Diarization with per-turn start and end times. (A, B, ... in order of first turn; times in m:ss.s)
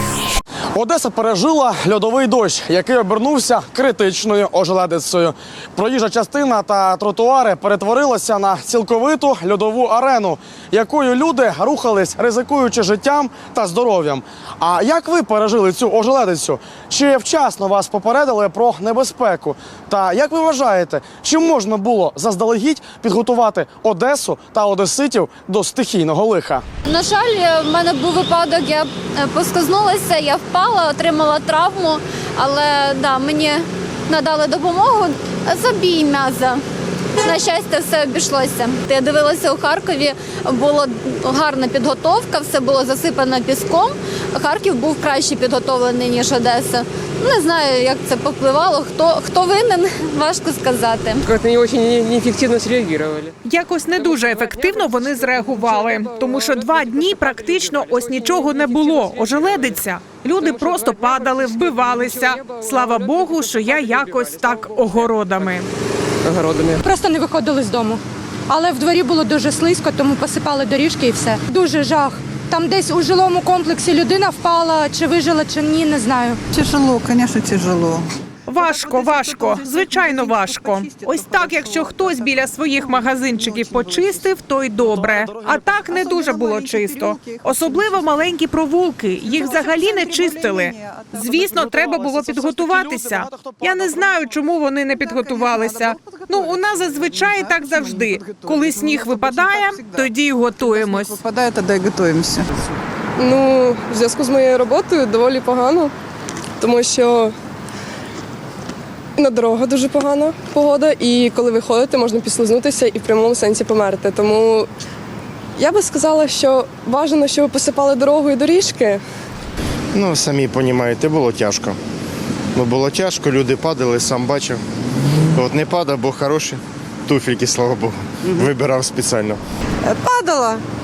0:00.7-0:26.6 A
0:26.9-0:36.6 B
0:37.2-0:51.2 B
0:51.3-0:53.3 C
0:53.4-1:05.7 D
0:57.3-0:59.7 C
1:00.4-1:04.1 C
1:04.7-1:05.1 C
1:06.2-1:06.8 C
1:06.8-1:16.4 E
1:16.5-1:18.1 F
1:18.5-1:41.2 D
1:18.6-1:24.3 F
1:24.8-1:25.7 A
1:25.9-1:28.1 F
1:29.3-1:31.5 F
1:31.5-1:34.3 A
1:34.9-1:40.1 F
1:40.6-1:42.5 F
1:43.2-1:45.9 G
1:46.6-1:47.3 G
1:49.2-1:54.7 G
1:55.6-1:59.0 G
1:59.9-2:01.8 H
2:02.5-2:04.6 H
2:05.3-2:09.4 H
2:09.8-2:10.6 C